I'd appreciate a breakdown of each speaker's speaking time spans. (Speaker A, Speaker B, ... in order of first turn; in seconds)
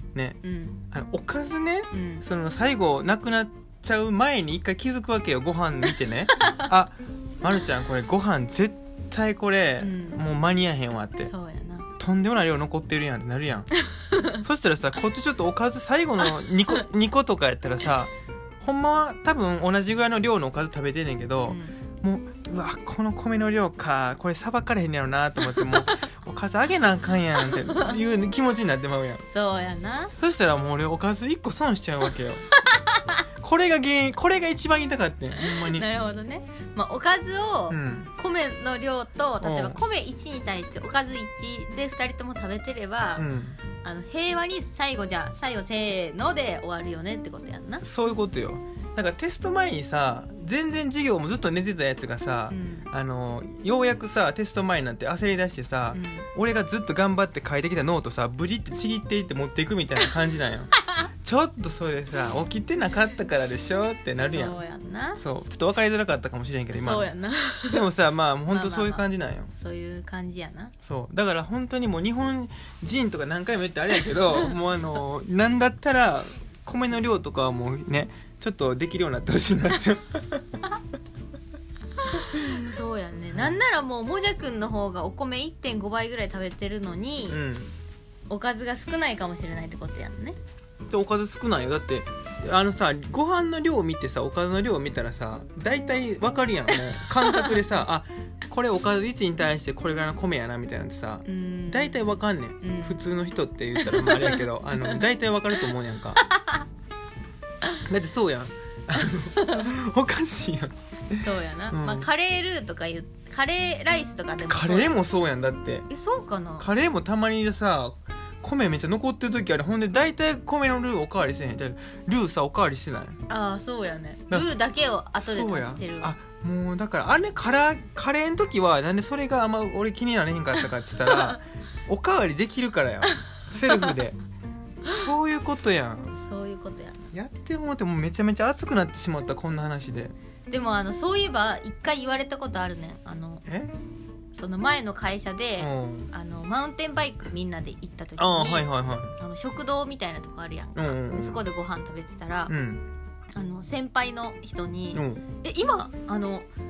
Speaker A: 0.4-0.8, 1.9-2.2, 6.3-6.7, 9.8-10.2, 11.2-11.9, 13.9-14.4, 21.5-21.8, 27.4-28.0, 29.3-30.1, 32.5-33.2, 35.4-43.3, 43.8-47.8, 52.5-52.9, 55.9-56.3, 64.2-65.2, 66.8-67.9, 68.5-70.7, 74.3-74.5, 82.1-87.4, 88.3-90.4, 97.3-97.6, 101.2-103.0, 103.8-105.0, 106.2-106.6, 109.4-109.7, 111.2-115.0, 115.9-116.7, 123.3-126.1, 133.7-134.0, 136.2-137.1, 140.5-143.5, 144.3-152.5, 153.3-156.5
Speaker B: 0.9-11.3, 12.0-13.7, 14.4-29.2, 30.2-32.4, 33.4-35.9, 37.7-38.1, 39.4-39.8, 43.2-43.6, 47.8-64.6, 65.2-67.1, 67.7-69.5, 70.8-80.5, 83.3-83.6, 87.3-87.7, 90.9-106.2, 107.8-112.1, 114.5-115.9, 116.6-123.2, 125.2-134.2, 134.9-136.1, 137.1-140.1, 143.5-143.7, 145.6-146.1, 148.2-149.1, 150.8-151.4, 152.5-152.8, 154.9-155.2